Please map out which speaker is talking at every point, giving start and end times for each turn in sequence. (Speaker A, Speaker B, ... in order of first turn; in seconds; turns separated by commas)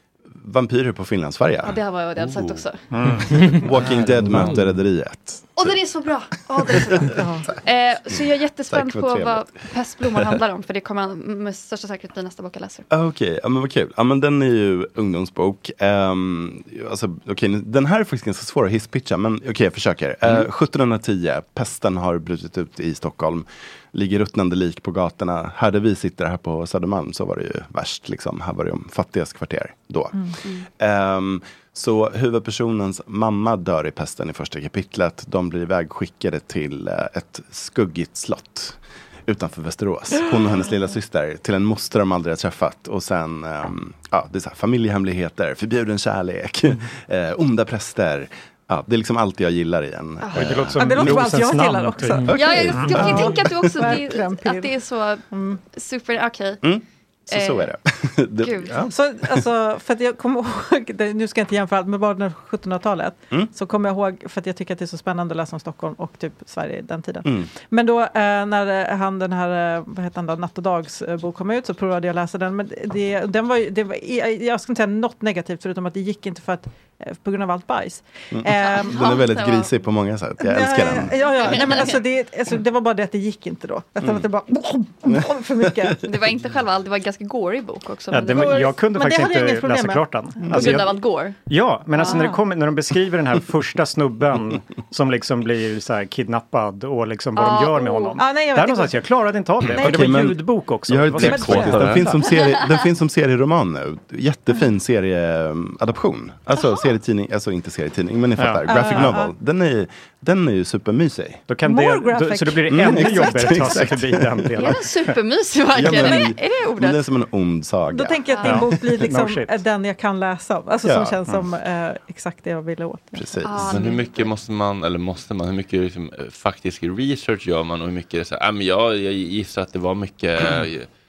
Speaker A: 0.3-1.8, Speaker B: 1.6-2.8, Speaker C: 2.2-2.5, Speaker D: 2.9-3.5, Speaker A: 3.4-5.7, Speaker C: 3.8-4.5, Speaker B: 5.5-12.8, Speaker A: 6.6-7.1, Speaker E: 7.0-7.5, Speaker A: 8.1-9.4, Speaker A: 12.9-51.3, Speaker B: 50.2-50.5, Speaker D: 50.3-53.0, Speaker E: 50.8-54.7, Speaker A: 52.2-53.9, Speaker B: 52.3-56.6, Speaker E: 55.3-55.6, Speaker A: 56.6-59.4, Speaker B: 57.3-57.7, Speaker B: 58.4-58.9, Speaker E: 58.9-79.1, Speaker A: 78.3-81.5, Speaker B: 78.6-79.7, Speaker E: 80.4-86.0, Speaker B: 81.4-82.0, Speaker A: 84.0-84.3, Speaker A: 85.1-86.0, Speaker B: 86.0-88.7, Speaker D: 88.1-90.9, Speaker E: 88.2-90.1, Speaker B: 90.5-91.3, Speaker D: 91.5-102.2, Speaker E: 92.0-92.4, Speaker B: 97.3-98.2, Speaker E: 98.2-99.0, Speaker E: 99.7-100.3, Speaker A: 99.8-111.4, Speaker C: 101.2-102.1, Speaker E: 101.2-101.9, Speaker B: 106.5-106.8, Speaker D: 108.4-109.1, Speaker E: 108.7-109.3, Speaker D: 111.5-115.1, Speaker E: 111.6-113.8, Speaker A: 112.7-114.7, Speaker B: 114.5-117.0, Speaker A: 115.7-118.9, Speaker E: 115.9-116.3, Speaker E: 117.9-123.4, Speaker B: 118.3-118.6, Speaker D: 118.4-119.5, Speaker A: 120.8-121.4, Speaker A: 123.1-123.8, Speaker B: 123.4-124.3, Speaker C: 123.6-130.9